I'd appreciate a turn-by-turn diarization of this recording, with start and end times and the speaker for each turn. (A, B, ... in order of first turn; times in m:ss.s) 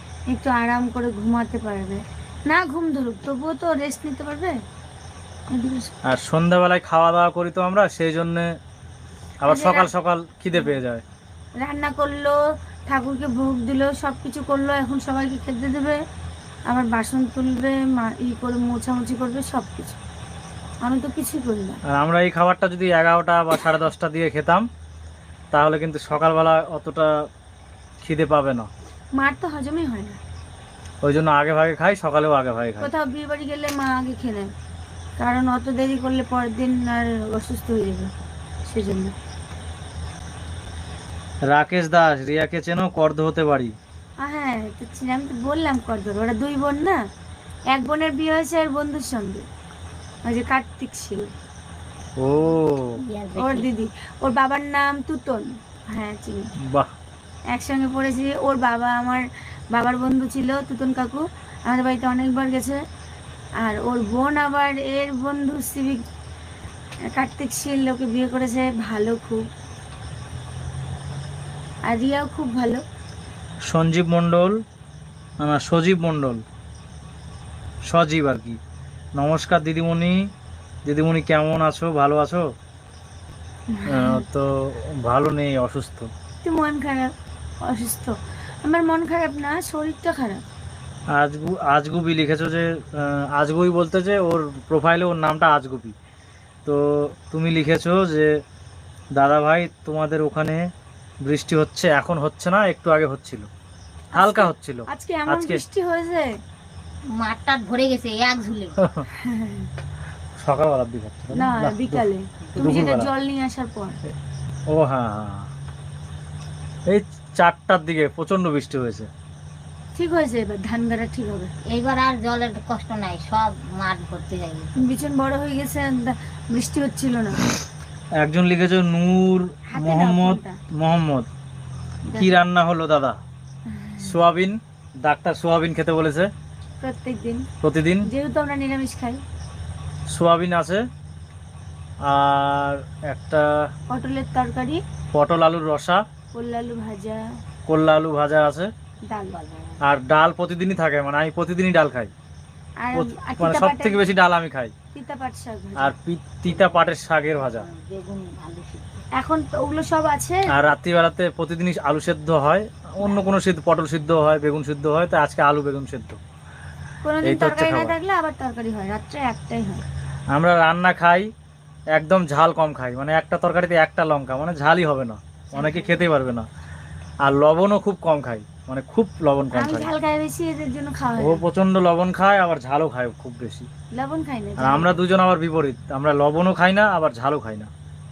0:00.3-0:04.6 A
0:05.5-0:05.9 A
0:06.0-0:08.5 B
0:09.4-0:11.0 B
0:09.5-0:09.9 A
0:11.6-0:16.0 A
0:16.7-0:20.0 A
0:20.8-0:21.8 A
0:21.9-0:24.6 B
0:25.5-0:27.1 B
0:28.0-0:28.7 B
0:29.2-0:30.2 A
0:31.0-0:32.9 B
0:32.8-0:34.5 A
0:35.2-0:38.1 A
0:38.6-0:39.1 A
0:41.5-0:43.7 B
0:44.2-0:47.0 A
0:47.7-0:49.4 A
0:50.2-0:51.3 A
0:52.2-0:53.0 B
0:53.0-0:53.7 C
0:53.4-0:56.5 A
0:57.5-1:02.8 A
1:03.6-1:06.0 A
1:07.1-1:09.4 A
1:11.8-1:12.8 A
1:13.7-1:14.5 B
1:15.4-1:16.4 B
1:17.9-1:18.6 B
1:19.2-1:20.2 B
1:20.8-1:22.4 B
1:23.7-1:24.2 A
1:23.9-1:26.1 B
1:26.4-1:27.1 A
1:27.6-1:30.4 A
1:31.1-1:35.9 B
1:36.6-1:38.3 B
1:39.2-1:40.6 B
1:41.2-1:43.5 B
1:44.1-1:45.6 B
1:44.1-1:46.3 A
1:47.1-1:48.7 C
1:48.8-1:49.0 B
1:49.2-1:49.7 A
1:50.4-1:52.0 B
1:51.3-1:54.0 A
1:52.6-1:53.1 B
1:54.7-1:55.5 B
1:56.9-1:59.1 B
1:59.9-2:01.6 A
2:01.6-2:04.7 C
2:04.8-2:07.4 A
2:08.2-2:11.3 B
2:09.7-2:10.6 A
2:12.1-2:12.4 A
2:12.2-2:13.2 B
2:13.7-2:14.2 A
2:14.0-2:16.3 B
2:16.8-2:17.5 A
2:17.6-2:18.1 B
2:18.1-2:19.2 A
2:20.1-2:20.8 B
2:22.0-2:23.5 B
2:23.9-2:24.8 A
2:25.1-2:26.0 B
2:26.3-2:27.2 A
2:27.7-2:28.7 B
2:29.1-2:29.4 A
2:29.3-2:29.8 C
2:29.8-2:32.1 B
2:32.8-2:34.1 A
2:32.9-2:34.7 B
2:34.9-2:35.9 A
2:35.8-2:37.7 B
2:37.5-2:39.0 C
2:39.2-2:40.4 A
2:40.5-2:46.2 B
2:47.0-2:49.8 A
2:47.2-2:47.9 B
2:50.3-2:51.2 B
2:51.9-2:56.4 B
2:55.5-2:56.1 A
2:57.2-2:59.9 B
2:59.5-3:01.4 A
3:01.2-3:03.7 B
3:03.9-3:05.0 A
3:04.6-3:07.7 B